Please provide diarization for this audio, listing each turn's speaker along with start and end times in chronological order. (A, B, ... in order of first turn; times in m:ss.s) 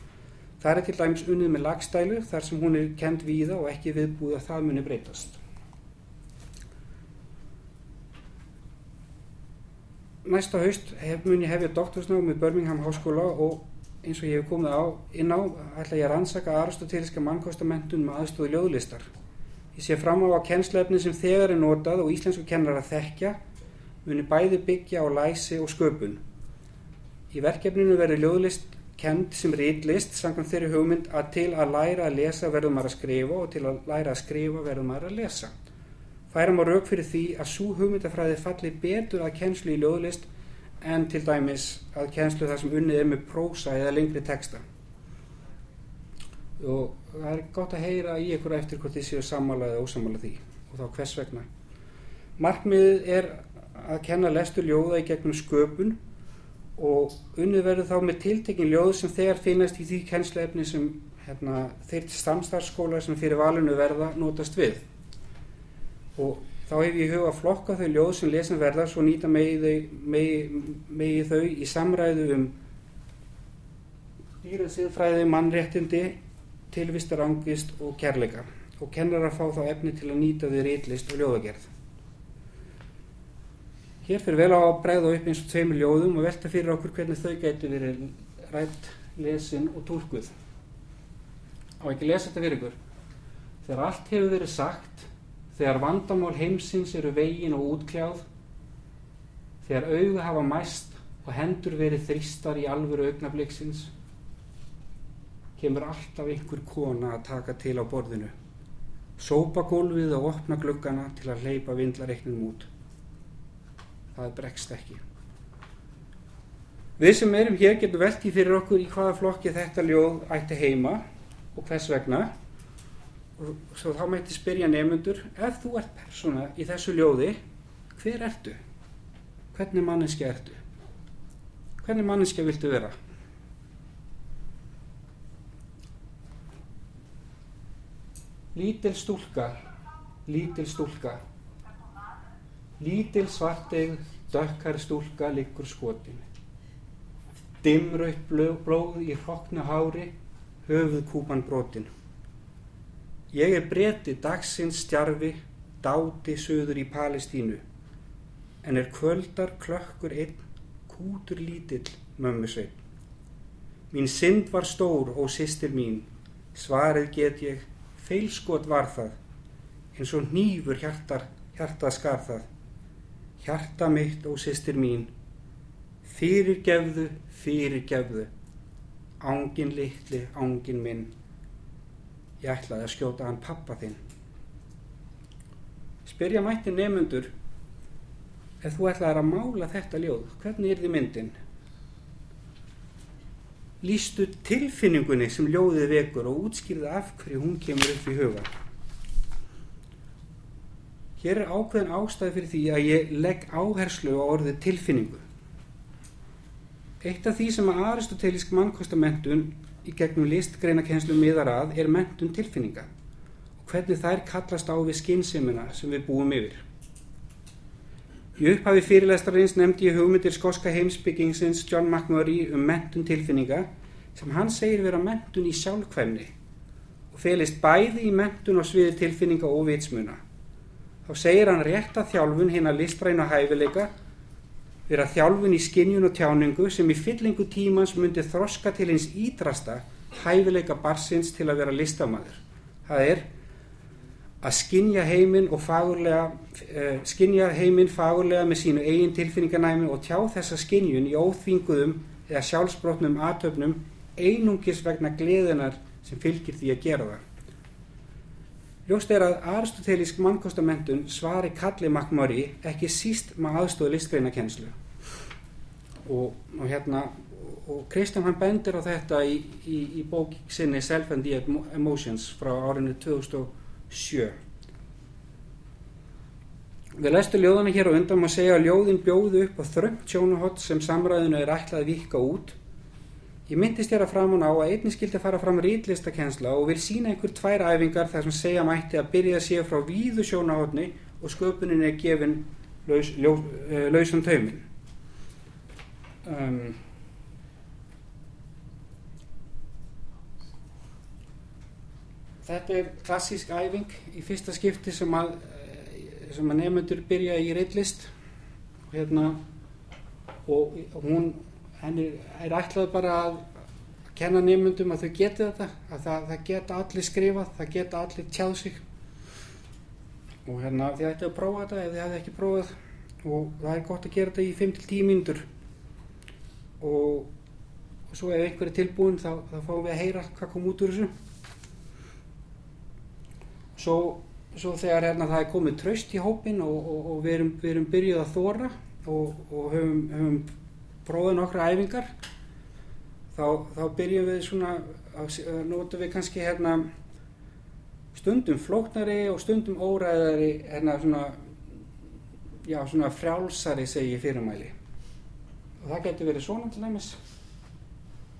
0:00.6-0:05.4 A
0:10.2-0:19.1 A
0:19.7-0:23.4 A
0:24.0-0:26.2 A
0:27.3-0:35.5 A
0:36.3-0:40.3 A
0:40.8-0:44.6 A
0:46.6-0:51.4 A
0:52.4-0:56.0 A
0:56.8-1:04.8 A
1:06.2-1:12.5 A
1:14.4-1:16.2 A
1:16.7-1:21.7 A
1:24.0-1:30.3 A
1:31.8-1:32.7 A
1:33.6-1:38.2 A
1:39.6-1:43.9 A
1:45.6-1:48.3 A
1:49.2-1:52.7 A
1:54.1-1:55.0 A
1:57.0-2:01.0 A
2:01.5-2:02.3 A
2:03.4-2:07.4 A
2:07.9-2:08.6 A
2:09.5-2:10.6 A
2:11.8-2:12.9 A
2:18.5-2:19.6 A
2:20.2-2:21.2 A
2:22.8-2:26.2 A
2:27.6-2:30.1 A
2:30.6-2:31.9 A
2:33.3-2:37.6 A
2:38.6-2:42.8 A
2:43.9-2:49.2 A
2:49.9-2:52.5 A
2:53.4-2:55.1 A
2:56.0-2:58.3 A
2:59.2-3:01.1 A
3:02.4-3:04.0 A
3:06.0-3:07.3 A
3:08.6-3:11.3 A
3:13.8-3:18.5 A
3:21.2-3:25.2 A
3:27.0-3:32.9 A
3:33.6-3:36.6 A
3:38.4-3:46.3 A
3:47.1-3:50.2 A
3:51.0-3:53.9 A
3:54.9-4:03.2 A
4:04.4-4:17.2 A
4:18.8-4:24.7 A
4:26.0-4:34.3 A
4:37.0-4:42.6 A
4:43.5-4:54.6 A
4:56.2-4:56.8 A
5:02.4-5:08.1 A
5:08.9-5:09.4 A
5:10.5-5:13.5 A
5:14.1-5:18.8 A
5:20.4-5:22.7 A
5:23.2-5:25.4 A
5:26.8-5:27.3 A
5:28.1-5:31.1 A
5:33.8-5:40.4 A
5:41.0-5:42.1 A
5:43.3-5:46.9 A
5:48.1-5:51.4 A
5:52.6-5:54.7 A
5:55.8-5:57.2 A